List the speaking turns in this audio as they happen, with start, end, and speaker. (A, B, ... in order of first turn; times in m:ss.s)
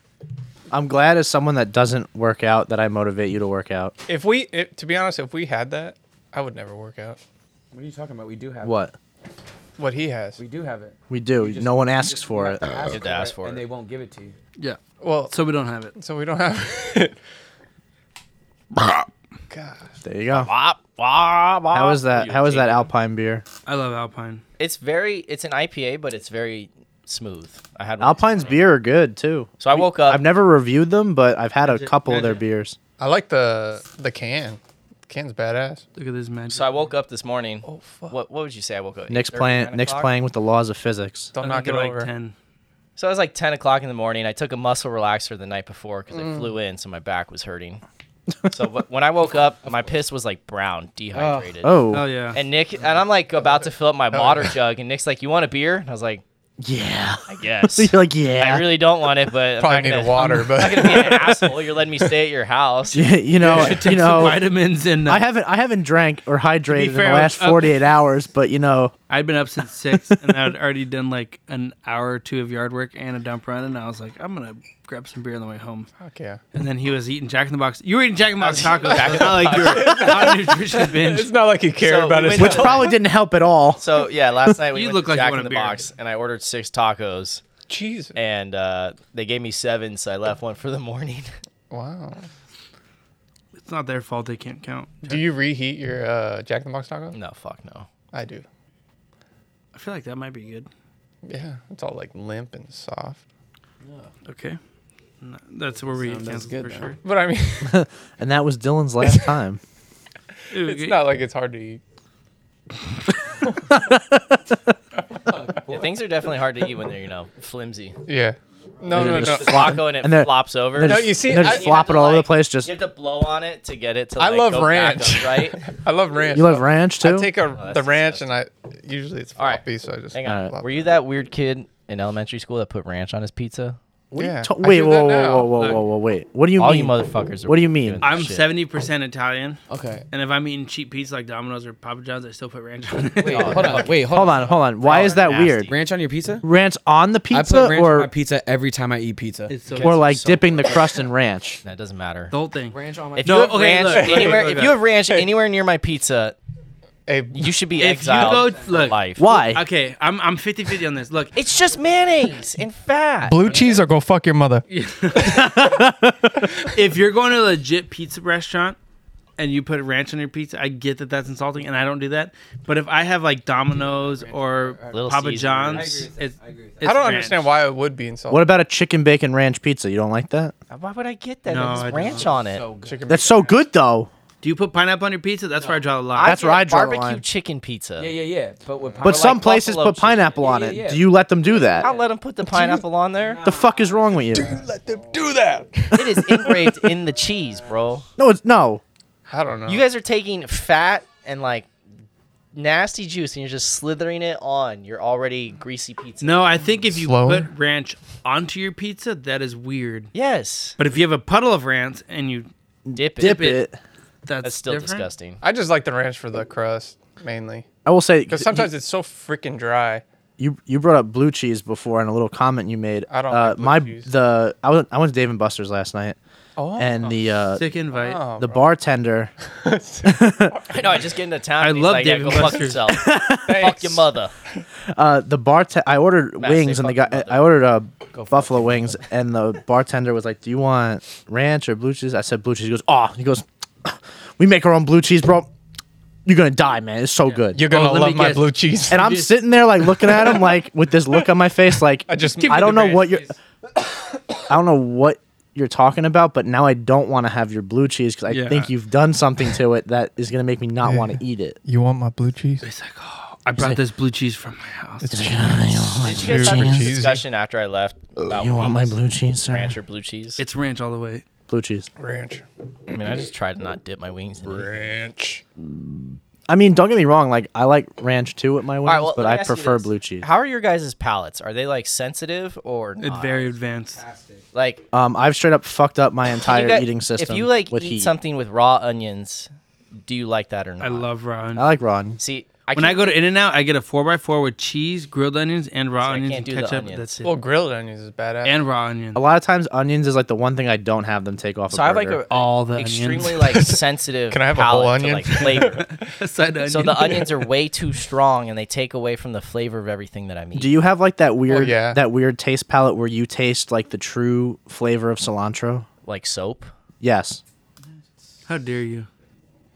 0:00.7-0:03.9 A
0:04.1-0:07.2 B
0:07.7-0:08.8 C
0:08.6-0:08.9 A
0:09.8-0:10.4 B
0:10.4-0:14.4 C
0:11.1-0:12.9 A
0:12.9-0:13.6 D
0:14.6-0:15.9 E
0:15.0-0:15.3 B
0:15.9-0:17.2 B
0:19.5-0:20.0 B
0:20.0-0:20.5 A
0:20.3-0:22.9 D
0:21.7-0:23.4 A
0:23.6-0:24.4 E
0:24.6-0:28.6 D
0:28.0-0:32.8 A
0:29.6-0:30.2 D
0:31.6-0:32.4 E
0:33.0-0:35.8 B
0:36.0-0:36.9 E
0:36.5-0:40.1 D
0:37.6-0:38.1 B
0:39.1-0:41.3 A
0:41.3-0:42.1 B
0:41.4-0:42.3 E
0:43.0-0:47.8 D
0:48.5-0:56.2 D
0:49.6-0:49.9 C
0:51.1-0:51.5 C
0:51.6-0:52.1 A
0:51.9-0:52.4 E
0:54.1-0:54.5 B
0:56.6-0:58.8 A
0:57.3-1:03.7 D
0:59.6-1:01.6 B
1:02.9-1:04.4 A
1:03.4-1:05.2 E
1:05.0-1:08.9 A
1:06.7-1:07.8 E
1:09.1-1:15.9 E
1:16.0-1:16.4 B
1:16.5-1:21.3 E
1:18.4-1:20.3 D
1:19.0-1:23.0 B
1:21.8-1:23.0 D
1:22.3-1:24.0 A
1:23.8-1:27.4 D
1:24.7-1:25.9 E
1:27.7-1:28.2 B
1:28.1-1:31.3 D
1:31.7-1:32.2 B
1:33.5-1:35.2 E
1:35.0-1:37.2 B
1:37.1-1:37.9 D
1:38.1-1:38.4 B
1:39.7-1:40.7 E
1:41.2-1:43.2 B
1:43.8-1:44.1 C
1:44.2-1:44.6 E
1:45.2-1:47.0 E
1:45.9-1:46.9 C
1:47.0-1:47.8 B
1:47.6-1:49.6 A
1:50.5-1:51.1 E
1:50.5-1:51.8 B
1:53.4-1:53.7 B
1:53.7-1:54.7 A
1:55.3-1:55.9 C
1:55.6-1:58.0 D
1:58.0-1:59.8 B
1:58.9-2:05.7 D
1:58.9-2:02.7 A
2:00.8-2:01.7 B
2:04.2-2:10.9 B
2:06.3-2:07.3 A
2:07.5-2:08.3 D
2:09.4-2:13.8 D
2:10.2-2:10.5 A
2:14.1-2:18.2 A
2:14.1-2:15.8 B
2:15.6-2:15.8 E
2:16.6-2:18.5 D
2:18.0-2:19.6 E
2:19.7-2:20.0 C
2:20.1-2:23.9 E
2:23.2-2:26.4 C
2:23.3-2:24.0 D
2:24.1-2:25.7 A
2:24.8-2:25.7 D
2:26.4-2:28.1 A
2:27.3-2:29.5 C
2:29.5-2:30.0 E
2:29.7-2:31.0 D
2:29.8-2:31.6 A
2:31.6-2:32.3 D
2:32.3-2:34.7 E
2:32.7-2:33.5 C
2:33.2-2:36.4 D
2:33.8-2:35.3 B
2:37.1-2:37.5 B
2:37.3-2:39.3 D
2:37.8-2:41.4 E
2:38.1-2:38.9 C
2:39.2-2:39.6 A
2:41.3-2:43.7 D
2:41.5-2:42.4 C
2:43.2-2:44.6 B
2:44.7-2:45.7 E
2:45.1-2:46.5 A
2:46.6-2:48.8 E
2:49.4-2:57.5 E
2:53.9-2:57.2 C
2:54.9-2:56.0 D
2:56.8-2:58.5 B
2:58.3-3:00.5 A
3:00.7-3:02.6 D
3:01.5-3:02.3 E
3:01.6-3:03.2 C
3:02.8-3:03.6 B
3:03.1-3:04.1 A
3:04.4-3:06.4 E
3:05.6-3:05.8 C
3:06.1-3:08.1 D
3:06.2-3:07.2 A
3:08.0-3:09.4 C
3:09.0-3:10.3 D
3:09.0-3:11.9 A
3:10.1-3:12.1 C
3:11.8-3:13.4 D
3:13.2-3:15.3 C
3:13.4-3:14.6 A
3:14.3-3:16.9 B
3:15.9-3:18.0 D
3:17.5-3:18.0 C
3:18.2-3:18.8 A
3:19.3-3:19.8 B
3:19.6-3:21.7 D
3:22.5-3:26.7 D
3:26.2-3:30.1 E
3:26.9-3:27.5 B
3:30.1-3:30.8 D
3:30.8-3:32.5 E
3:32.8-3:33.8 A
3:32.9-3:33.6 D
3:33.2-3:33.6 E
3:34.2-3:35.1 E
3:34.4-3:35.4 D
3:35.4-3:37.6 B
3:37.8-3:38.7 A
3:38.3-3:40.0 B
3:40.4-3:46.2 A
3:43.1-3:44.1 B
3:46.6-3:48.6 B
3:46.8-3:47.6 A
3:47.5-3:48.2 E
3:48.4-3:49.3 A
3:49.5-3:51.0 B
3:50.0-3:50.7 A
3:50.7-3:54.3 D
3:51.6-3:52.9 E
3:52.9-3:53.9 A
3:53.4-3:54.0 B
3:54.9-4:05.5 A
3:56.4-3:57.5 D
3:58.1-3:59.0 C
4:06.2-4:07.6 A
4:07.3-4:09.3 E
4:07.5-4:09.0 B
4:08.9-4:13.3 A
4:10.0-4:10.3 E
4:12.1-4:13.1 B
4:12.3-4:13.2 E
4:14.5-4:21.6 A
4:18.3-4:18.7 E
4:20.8-4:22.7 B
4:22.6-4:25.3 E
4:25.0-4:27.2 B
4:25.1-4:27.0 A
4:26.0-4:29.0 D
4:28.2-4:29.8 A
4:29.5-4:30.4 D
4:30.4-4:31.2 E
4:31.5-4:31.9 A
4:32.0-4:32.4 B
4:32.9-4:34.9 D
4:34.4-4:35.4 B
4:35.6-4:40.3 A
4:38.8-4:43.5 D
4:43.0-4:44.0 E
4:43.9-4:44.4 C
4:44.5-4:44.8 D
4:44.9-4:48.1 A
4:46.4-4:49.5 D
4:50.0-4:51.1 D
4:50.8-4:51.7 E
4:51.6-4:52.2 A
4:52.2-4:53.2 D
4:52.7-4:57.3 E
4:56.0-4:57.2 D
4:57.2-4:58.6 B
4:58.4-4:59.2 E
4:59.1-5:02.2 A
5:01.7-5:05.9 D
5:02.3-5:03.4 E
5:03.4-5:06.1 B
5:05.8-5:07.4 E
5:06.6-5:10.7 D
5:10.5-5:15.9 A
5:11.5-5:12.0 B
5:16.0-5:16.7 D
5:17.0-5:17.4 A
5:18.5-5:19.1 E